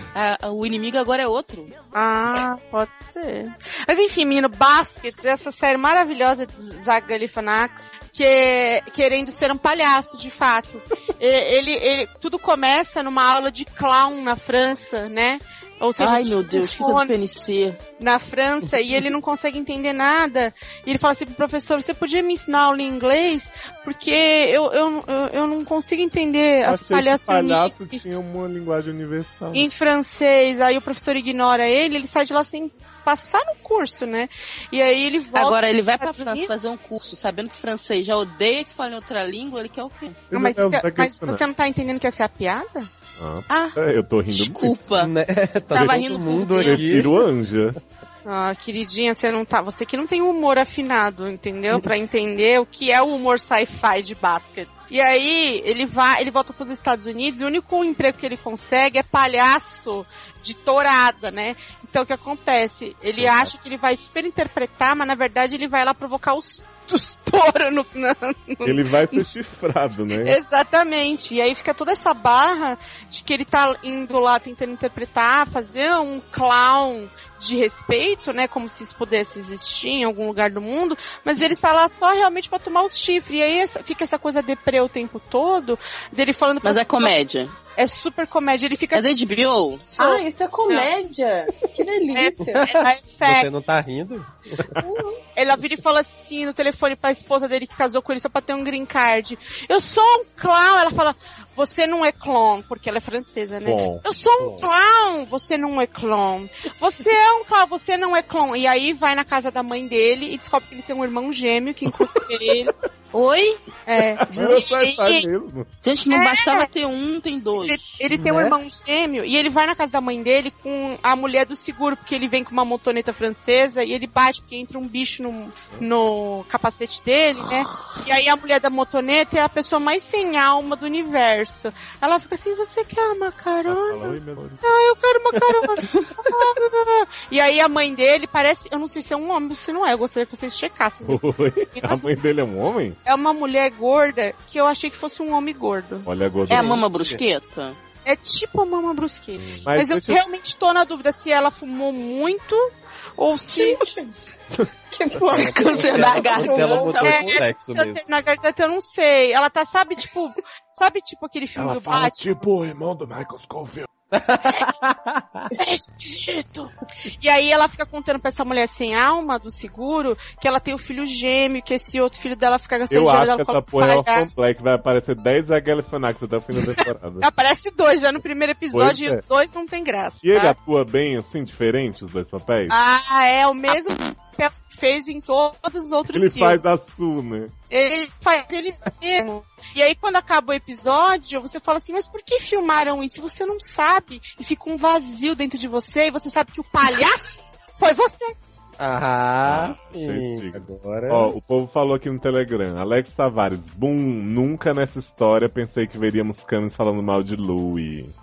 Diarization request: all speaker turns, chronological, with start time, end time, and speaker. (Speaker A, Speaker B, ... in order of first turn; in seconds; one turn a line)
Speaker A: 0.1-1.7
Speaker B: 1.9-17.1
Speaker A: 16.0-17.8
Speaker B: 18.0-28.0
Speaker C: 26.6-29.7
Speaker B: 29.5-36.5
Speaker A: 35.3-40.2
Speaker C: 40.3-41.4
Speaker B: 40.3-42.9
Speaker C: 43.2-44.7
Speaker A: 43.5-43.8
Speaker A: 44.3-45.1
Speaker D: 44.9-47.1
Speaker C: 45.7-46.0
Speaker A: 45.7-47.1
Speaker C: 46.6-47.8
Speaker B: 48.2-69.2
Speaker C: 63.2-63.5
Speaker C: 68.6-70.4
Speaker B: 70.2-87.1
Speaker A: 86.6-87.5
Speaker B: 87.8-89.0
Speaker A: 88.9-89.8
Speaker B: 89.8-90.9
Speaker E: 90.0-92.7
Speaker B: 92.1-93.5
Speaker D: 92.4-94.8
Speaker E: 94.8-95.2
Speaker B: 95.3-112.7
Speaker C: 103.6-104.0
Speaker A: 113.1-113.6
Speaker B: 113.8-115.3
Speaker C: 114.2-115.7
Speaker A: 115.8-118.0
Speaker B: 116.1-116.7
Speaker B: 117.6-142.0
Speaker D: 118.1-118.5
Speaker C: 133.7-134.7
Speaker D: 135.4-135.9
Speaker C: 141.0-143.0
Speaker B: 143.0-146.1
Speaker C: 146.1-146.8
Speaker A: 146.5-147.8
Speaker D: 146.7-147.2
Speaker B: 148.0-153.8
Speaker C: 149.6-150.2
Speaker E: 153.5-154.1
Speaker E: 154.9-157.3
Speaker D: 155.3-158.0
Speaker A: 155.3-157.3
Speaker B: 157.0-162.3
Speaker C: 161.6-163.8
Speaker D: 164.1-165.5
Speaker B: 165.5-174.6
Speaker C: 172.9-177.3
Speaker B: 177.2-180.6
Speaker C: 178.7-179.2
Speaker C: 180.2-182.7
Speaker B: 182.7-186.6
Speaker C: 186.1-187.5
Speaker B: 187.7-198.3
Speaker D: 198.8-201.3
Speaker C: 199.4-208.1